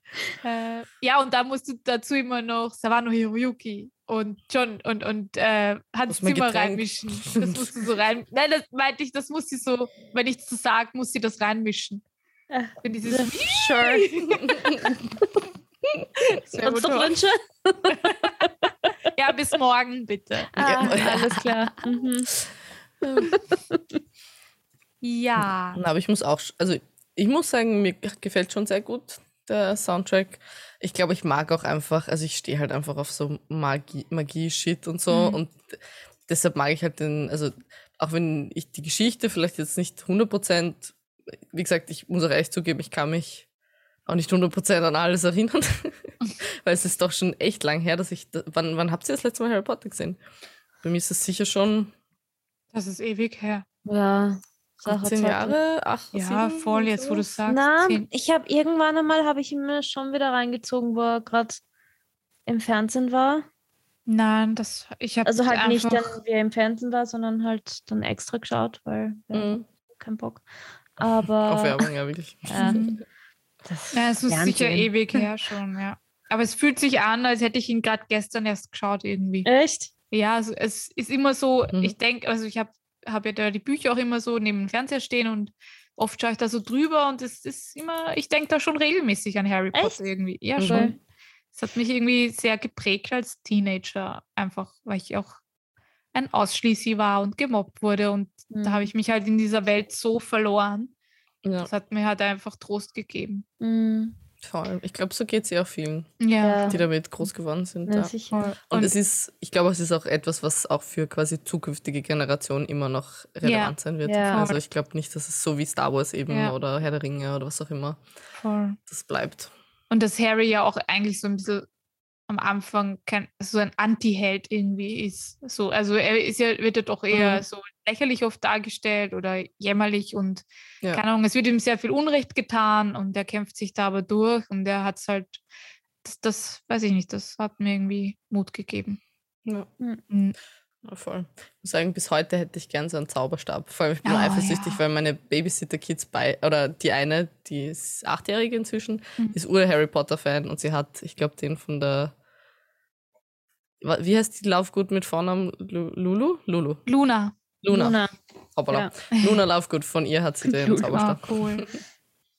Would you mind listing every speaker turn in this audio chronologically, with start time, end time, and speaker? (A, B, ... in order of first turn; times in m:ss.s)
0:00.4-0:12.0 A
0:06.1-0:07.6 B
0:12.5-0:14.1 C
0:12.8-0:14.8 A
0:16.2-0:17.2 A
0:16.6-0:18.9 C
0:18.0-0:18.3 A
0:19.1-0:21.5 A
0:20.6-0:22.3 C
0:20.6-0:21.4 B
0:23.3-0:23.8 C
0:25.0-0:25.8 A
0:25.7-0:41.0 B
0:35.1-0:35.4 A
0:41.5-0:43.5 B
0:44.1-0:50.2 B
0:50.8-0:51.9 B
0:52.7-0:53.6 A
0:53.8-0:55.6 C
0:54.8-0:57.2 B
0:56.1-0:58.0 A
0:57.5-1:01.6 C
1:02.5-1:03.5 C
1:04.1-1:06.1 A
1:05.2-1:10.4 C
1:09.3-1:09.7 B
1:11.0-1:11.9 C
1:11.4-1:13.0 B
1:12.5-1:12.8 C
1:12.6-1:13.0 A
1:13.6-1:15.3 C
1:13.9-1:19.5 A
1:19.4-1:19.9 C
1:20.1-1:31.0 A
1:30.6-1:30.9 B
1:30.7-1:31.0 C
1:31.5-1:35.4 A
1:36.1-1:40.9 A
1:38.5-1:38.9 C
1:41.4-1:41.7 B
1:41.6-1:43.4 A
1:43.6-1:44.2 C
1:44.4-1:48.1 B
1:46.2-1:46.8 A
1:46.4-1:46.8 C
1:47.9-1:48.5 C
1:48.3-1:49.0 A
1:48.7-1:58.0 B
1:53.4-1:53.8 A
1:54.1-1:54.4 C
1:54.3-1:54.6 A
1:56.3-1:56.6 A
1:58.4-1:58.8 A
1:58.9-1:59.5 B
1:59.9-2:01.7 A
2:02.3-2:15.4 A
2:07.1-2:07.4 B
2:16.0-2:19.0 A
2:20.1-2:20.4 A
2:20.8-2:32.1 B
2:24.0-2:24.8 A
2:33.8-2:36.8 B
2:36.9-2:37.4 A
2:37.6-2:38.0 B
2:37.7-2:38.2 C
2:38.6-2:41.6 B
2:39.1-2:39.4 A
2:40.4-2:41.0 C
2:40.9-2:41.7 A